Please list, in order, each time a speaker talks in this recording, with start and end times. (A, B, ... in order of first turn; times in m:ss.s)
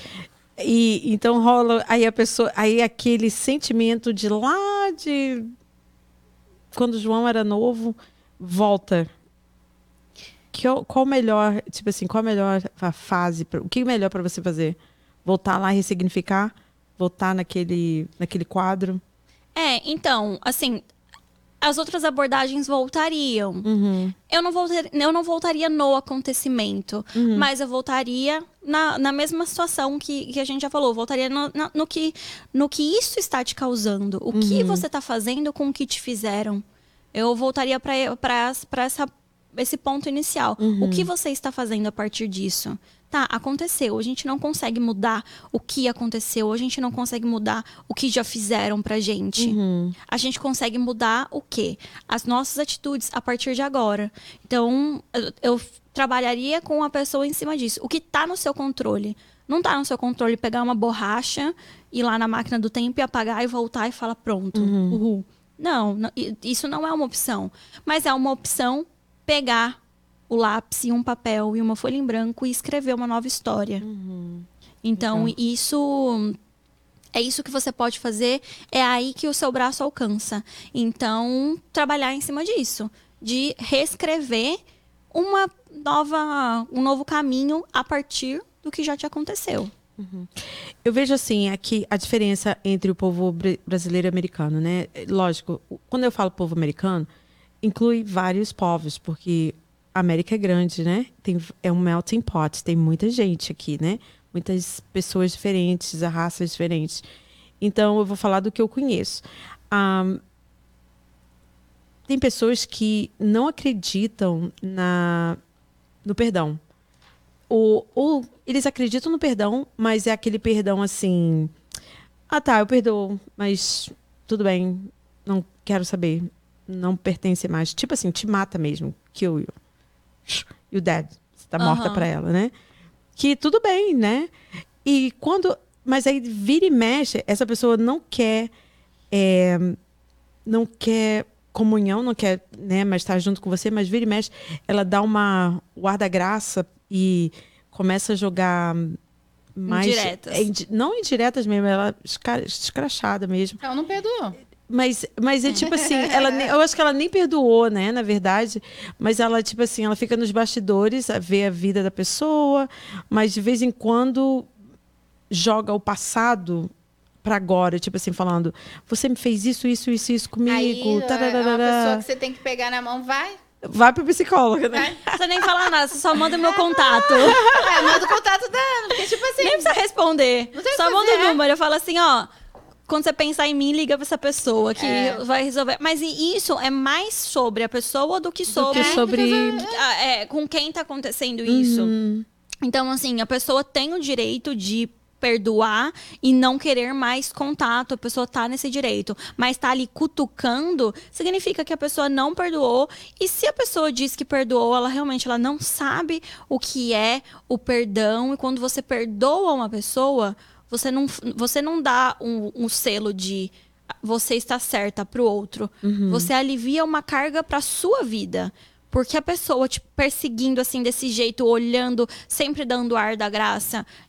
0:00.6-0:05.5 A
0:06.7-0:09.1 A
0:10.5-0:19.0 A
0:19.6-0:20.9 B
0:21.6-0:23.7 B
0:23.6-0:24.1 A
0:24.3-0:36.6 B
0:27.2-0:27.5 A
0:34.3-0:34.9 A
0:37.1-1:09.8 B
0:40.6-0:41.1 A
0:49.4-0:50.0 A
1:04.6-1:05.0 A
1:10.3-1:13.8 B
1:13.8-1:14.5 A
1:14.8-1:16.4 B
1:15.0-1:15.3 A
1:17.1-1:24.6 B
1:25.1-1:29.7 B
1:30.0-1:37.1 A
1:37.6-1:47.0 A
1:47.6-1:50.2 A
1:52.1-1:55.4 A
1:56.0-1:56.6 A
1:57.5-2:01.5 A
2:02.3-2:09.5 A
2:10.3-2:12.5 A
2:11.6-2:12.1 B
2:13.2-2:14.3 A
2:14.8-2:18.5 A
2:19.1-2:19.8 A
2:20.4-2:29.0 A
2:29.6-2:33.6 A
2:29.7-2:30.5 B
2:33.6-2:34.4 C
2:34.7-2:44.5 A
2:35.5-2:36.5 C
2:45.3-2:46.7 A
2:47.2-2:52.0 A
2:50.5-2:53.4 C
2:53.6-2:55.5 A
2:54.7-2:55.0 C
2:55.1-2:57.4 B
2:56.2-2:58.1 A
2:57.2-2:59.8 C
2:59.4-3:02.3 B
3:00.6-3:01.4 C
3:02.9-3:11.9 B
3:04.8-3:05.2 C
3:08.5-3:09.8 C
3:08.7-3:09.6 A
3:11.5-3:12.2 A
3:12.6-3:43.9 B
3:35.8-3:36.3 A